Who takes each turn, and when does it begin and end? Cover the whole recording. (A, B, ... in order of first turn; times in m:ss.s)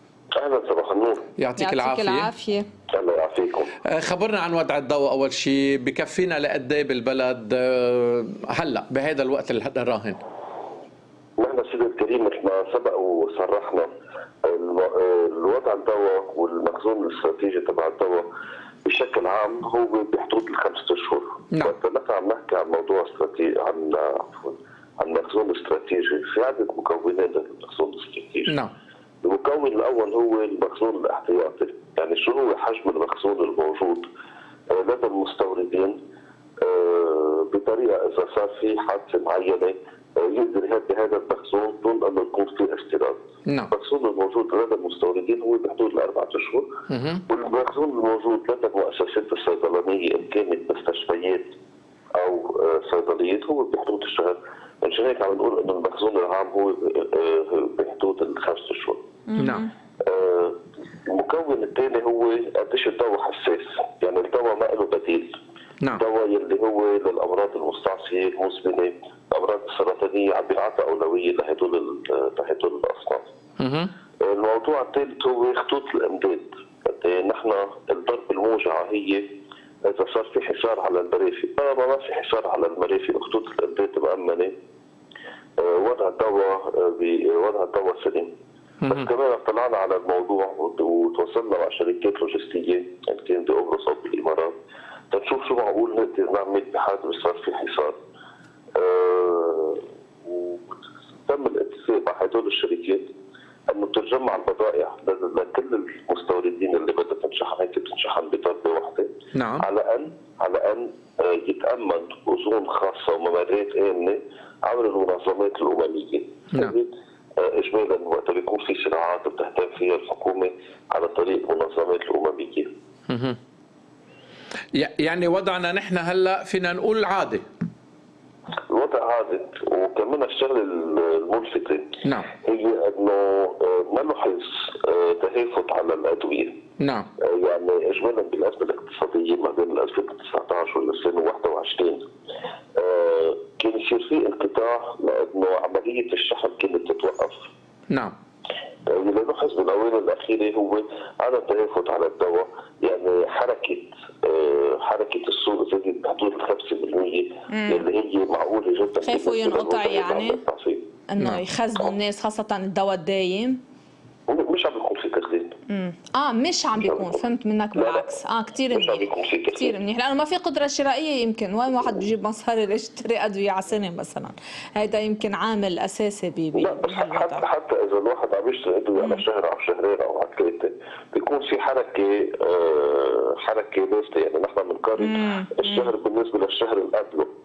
0:00.3-0:01.3 A
0:01.4-0:02.3 B
0:01.6-0:02.6 C
0:02.9-0:03.7 A
0:03.8-0:10.2 B
0:11.4-0:13.9 A
0:14.4-0:18.2 A
0:18.8-0:28.5 A
0:28.5-0:28.7 B
0:29.2-0:34.0 A
0:34.7-0:36.0 A
0:36.6-0:43.2 A
0:43.4-0:43.7 B
0:43.7-0:46.6 A
0:46.9-0:47.2 B
0:47.3-0:51.5 A
0:52.2-0:59.0 A
0:59.3-0:59.7 C
0:59.4-0:59.6 B
1:00.1-1:00.5 A
1:01.1-1:05.3 A
1:05.9-1:13.3 A
1:13.6-1:13.9 B
1:14.2-1:19.2 A
1:19.9-1:24.5 A
1:25.6-1:28.3 A
1:28.8-1:29.1 B
1:28.9-1:34.5 A
1:35.1-1:38.0 A
1:38.8-1:43.0 A
1:43.7-1:49.1 A
1:49.3-1:49.6 B
1:49.6-2:02.7 A
2:03.1-2:03.4 B
2:04.7-2:07.4 B
2:08.7-2:11.9 A
2:12.0-2:12.3 B
2:12.4-2:16.6 A
2:16.8-2:17.1 B
2:17.2-2:22.0 A
2:22.8-2:27.5 A
2:28.9-2:40.8 A
2:37.5-2:37.8 C
2:39.0-2:40.4 C
2:41.1-2:43.6 C
2:44.3-2:45.5 A
2:45.7-2:57.4 C
2:46.8-2:47.2 A
2:47.7-2:48.1 A
2:48.7-2:49.8 A
2:56.5-3:07.3 A
3:05.0-3:05.9 C